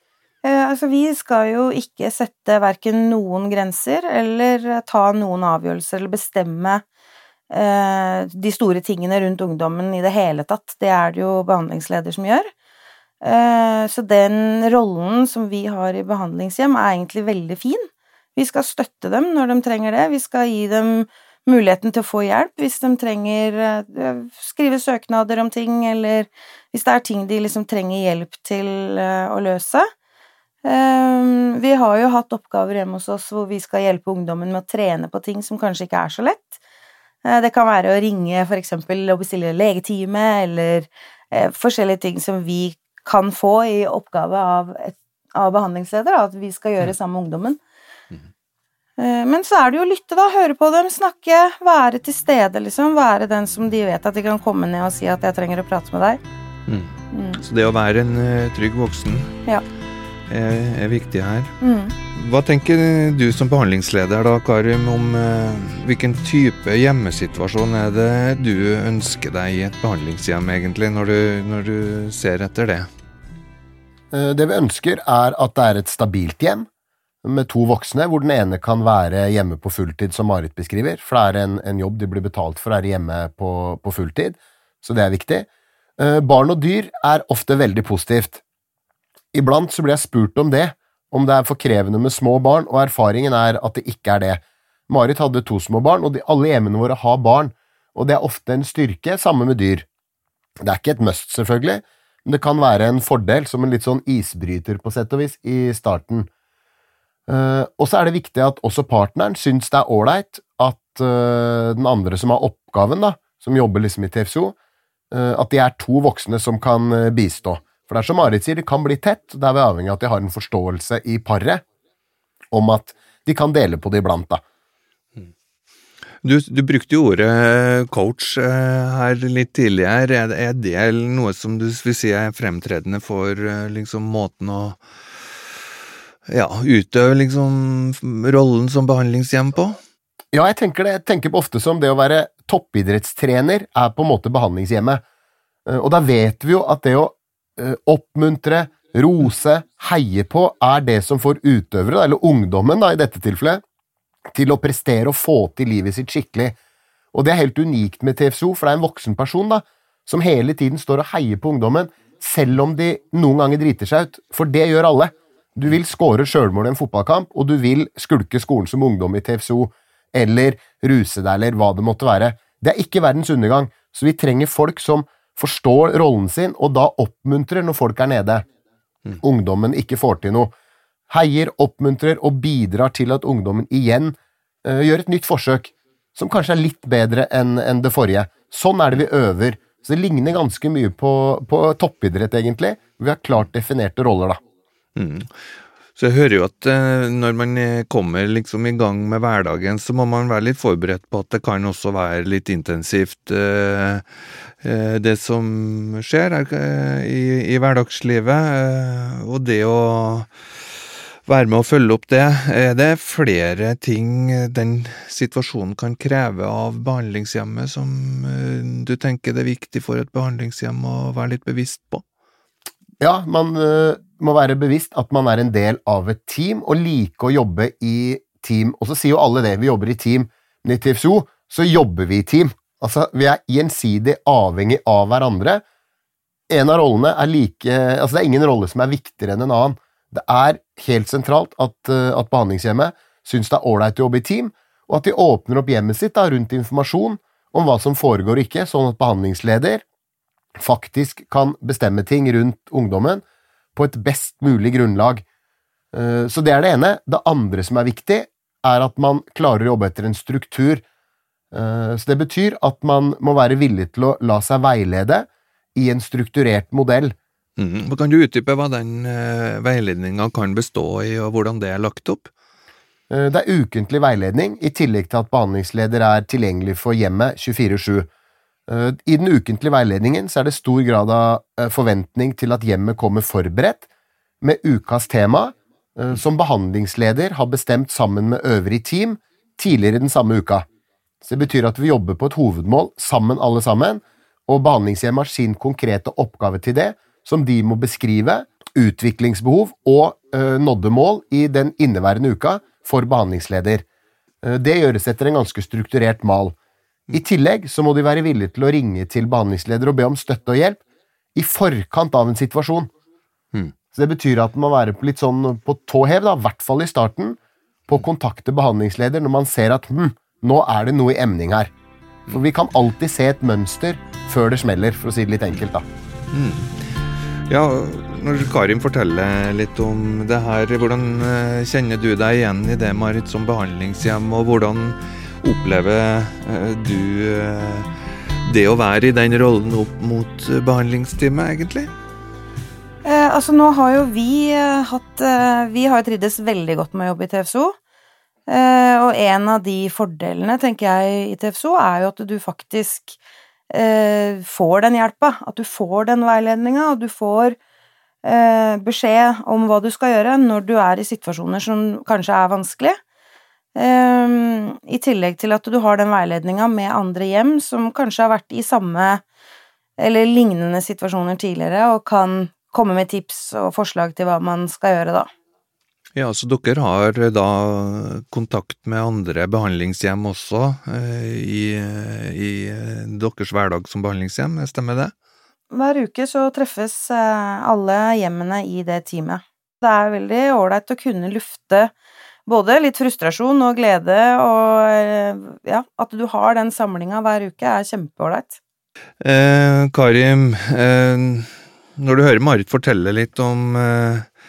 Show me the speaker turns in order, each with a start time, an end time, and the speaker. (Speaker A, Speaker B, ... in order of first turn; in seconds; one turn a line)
Speaker A: 0.4-6.8
Speaker A: 7.5-12.5
Speaker A: 13.2-29.9
Speaker A: 30.6-36.6
Speaker A: 37.2-47.6
Speaker A: 49.0-56.2
Speaker B: 56.7-59.4
Speaker A: 57.1-57.4
Speaker B: 60.3-61.5
Speaker A: 61.6-61.9
Speaker B: 62.1-72.9
Speaker C: 74.1-76.7
Speaker C: 77.2-85.5
Speaker C: 86.0-88.4
Speaker C: 89.3-99.8
Speaker C: 100.6-106.3
Speaker C: 107.3-114.5
Speaker C: 115.1-121.6
Speaker C: 122.5-124.4
Speaker B: 126.2-134.8
Speaker B: 136.3-139.8
Speaker C: 140.3-145.0
Speaker C: 145.7-153.6
Speaker C: 154.3-156.6
Speaker C: 157.1-178.4
Speaker C: 179.2-180.5
Speaker C: 181.1-194.4
Speaker B: 194.9-195.3
Speaker B: 195.9-204.1
Speaker B: 204.6-210.3
Speaker B: 211.2-222.0
Speaker C: 223.0-235.6
Speaker C: 236.5-249.8
Speaker C: 250.6-253.2
Speaker C: 253.7-255.2
Speaker C: 255.9-260.8
Speaker C: 261.5-267.1
Speaker B: 267.6-272.3
Speaker C: 273.1-278.1
Speaker C: 278.7-283.9
Speaker C: 284.4-290.6
Speaker C: 291.2-303.8
Speaker C: 304.4-306.5
Speaker C: 307.1-310.8
Speaker C: 311.3-312.9
Speaker C: 313.9-321.7
Speaker C: 322.3-325.9
Speaker B: 326.3-326.8
Speaker B: 327.5-337.9
Speaker B: 338.4-341.9
Speaker A: 343.0-347.8
Speaker A: 348.5-353.2
Speaker A: 353.7-357.6
Speaker A: 358.2-363.0
Speaker A: 363.8-369.2
Speaker A: 370.0-375.3
Speaker B: 376.1-385.1
Speaker A: 385.7-391.9
Speaker A: 392.5-398.6
Speaker B: 399.2-404.3